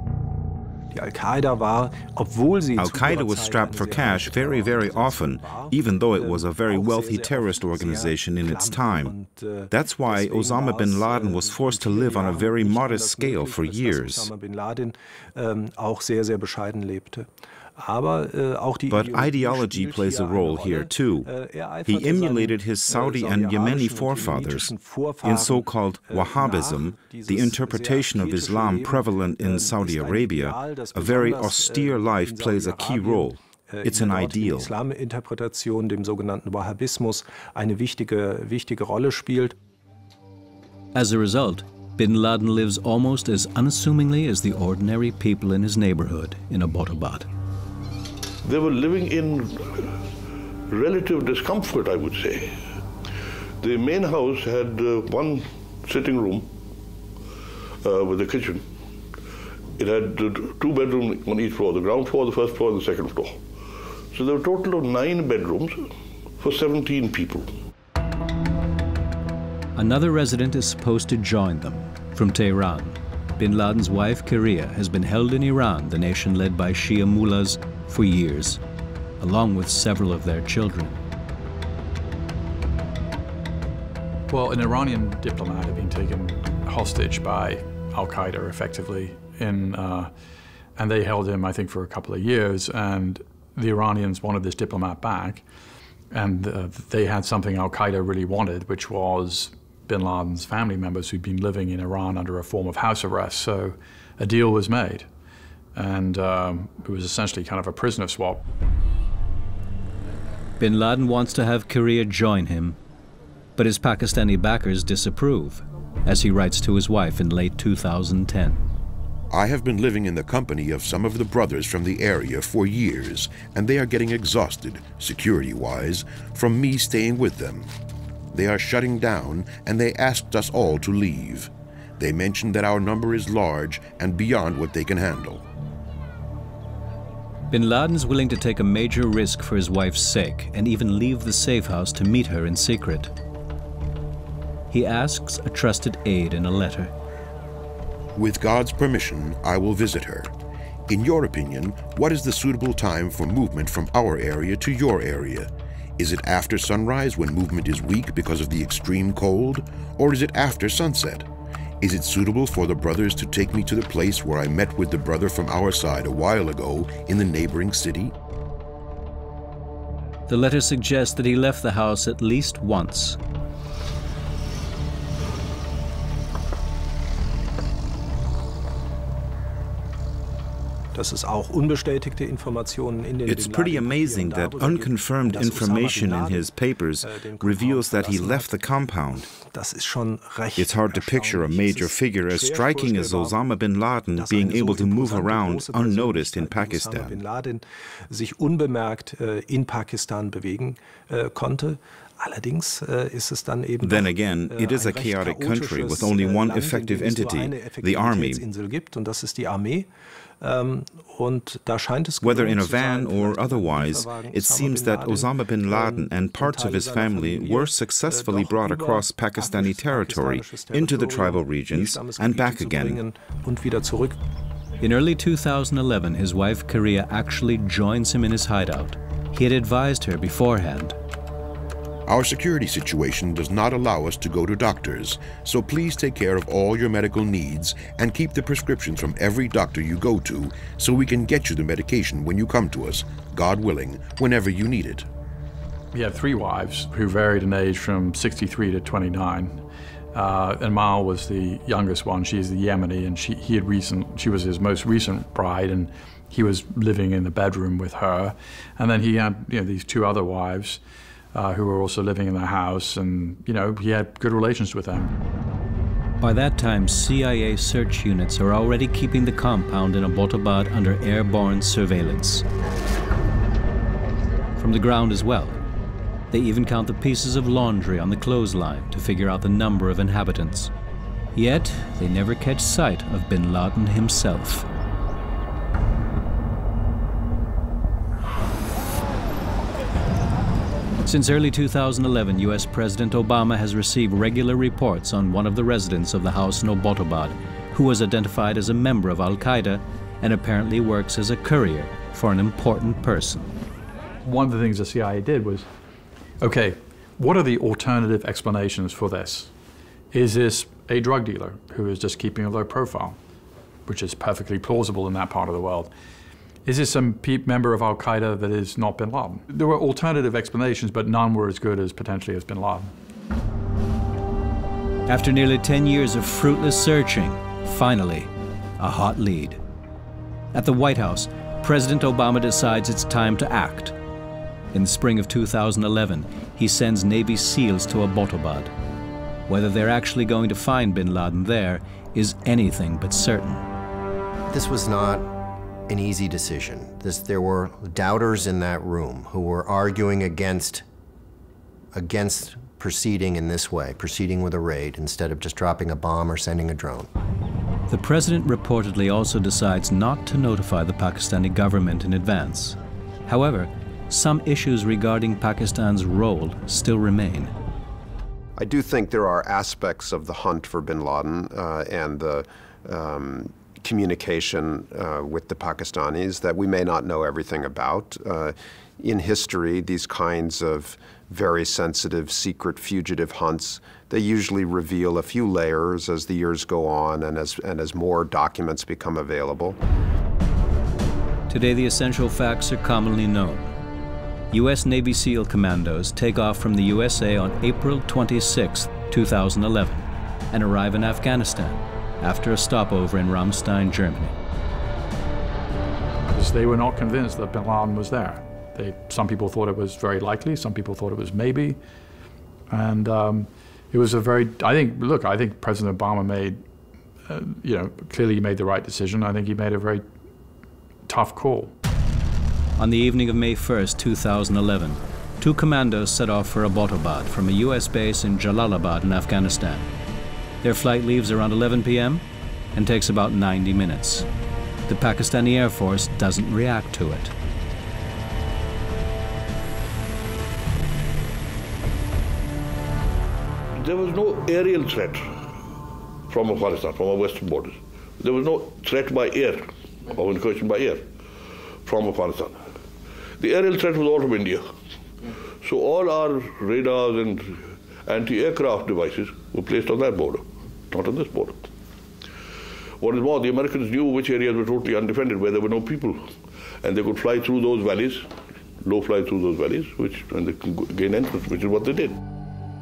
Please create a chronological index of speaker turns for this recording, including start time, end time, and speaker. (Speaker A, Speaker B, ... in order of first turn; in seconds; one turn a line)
Speaker A: 0.9-39.5
Speaker B: 2.8-9.1
Speaker B: 9.7-14.3
Speaker B: 18.9-21.3
Speaker B: 21.9-24.7
Speaker B: 25.2-34.7
Speaker C: 40.9-47.3
Speaker D: 48.4-50.0
Speaker D: 50.7-52.7
Speaker D: 53.6-56.5
Speaker D: 57.8-58.6
Speaker D: 59.8-63.4
Speaker D: 64.1-67.5
Speaker C: 69.8-78.6
Speaker C: 79.2-81.0
Speaker E: 84.3-90.1
Speaker E: 90.8-95.4
Speaker E: 96.1-105.1
Speaker E: 105.7-108.4
Speaker C: 110.6-112.8
Speaker C: 113.6-118.6
Speaker F: 119.3-127.7
Speaker F: 128.3-135.4
Speaker C: 137.5-143.1
Speaker C: 144.7-146.9
Speaker F: 148.1-150.3
Speaker F: 150.9-161.2
Speaker F: 161.8-168.1
Speaker C: 170.3-173.2
Speaker A: 180.9-188.6
Speaker B: 183.2-189.3
Speaker A: 189.3-193.6
Speaker B: 190.6-197.2
Speaker A: 194.1-209.9
Speaker B: 203.8-208.4
Speaker A: 210.4-224.2
Speaker B: 212.2-223.0
Speaker C: 224.8-230.9
Speaker F: 232.1-245.1
Speaker E: 245.9-249.6
Speaker E: 250.1-260.8
Speaker E: 261.3-265.1
Speaker C: 266.2-272.4
Speaker C: 274.6-275.6
Speaker C: 276.3-280.7
Speaker C: 281.3-284.6
Speaker C: 291.1-303.5
Speaker E: 304.2-305.6
Speaker E: 306.4-309.5
Speaker E: 310.1-313.2
Speaker E: 313.9-315.9
Speaker E: 316.6-322.9
Speaker C: 325.1-329.6
Speaker C: 330.5-333.9
Speaker C: 334.7-338.7
Speaker C: 339.5-343.6
Speaker G: 344.5-345.3
Speaker G: 345.9-350.8
Speaker G: 351.9-357.1
Speaker C: 357.9-367.5
Speaker H: 368.6-389.8
Speaker C: 391.5-393.7
Speaker C: 394.5-404.3
Speaker E: 406.3-411.8
Speaker E: 412.7-416.6
Speaker E: 417.3-420.0
Speaker E: 421.1-421.7
Speaker C: 422.8-429.9
Speaker C: 430.6-434.2
Speaker C: 434.9-437.3
Speaker D: 443.7-445.3
Speaker D: 446.3-451.1
Speaker D: 451.8-452.7
Speaker D: 453.4-454.7
Speaker D: 455.6-461.7
Speaker D: 463.0-472.2